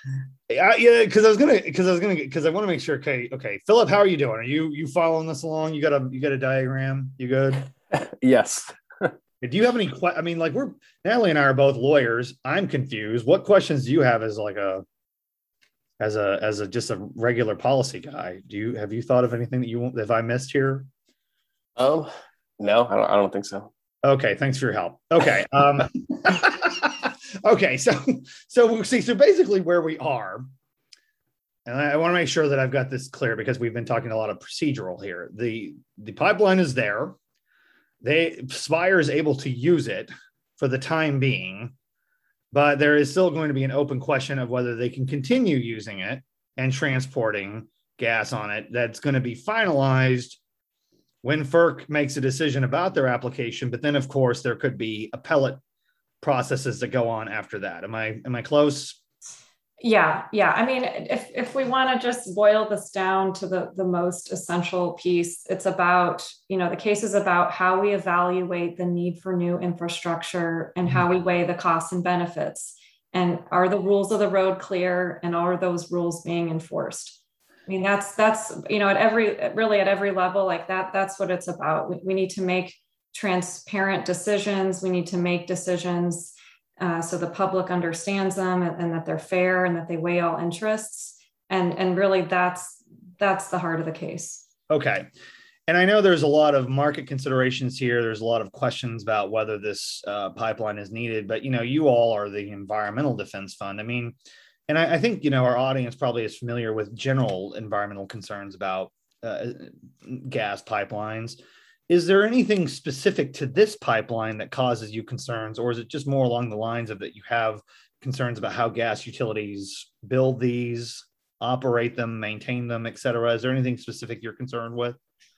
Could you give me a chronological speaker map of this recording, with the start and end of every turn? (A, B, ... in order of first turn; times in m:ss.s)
0:00.5-0:07.7 A
0:07.9-0:09.1 B
0:09.4-0:14.8 A
0:16.0-0:20.9 A
0:21.8-0:23.7 B
0:24.0-0:30.5 A
0:31.6-0:37.2 A
0:38.0-0:41.7 A
0:42.5-0:50.4 A
0:51.2-0:55.6 A
0:56.2-0:59.0 A
0:59.8-1:34.4 C
1:34.7-1:35.1 A
1:35.7-1:44.2 A
1:44.7-1:51.4 A
1:51.9-2:05.0 A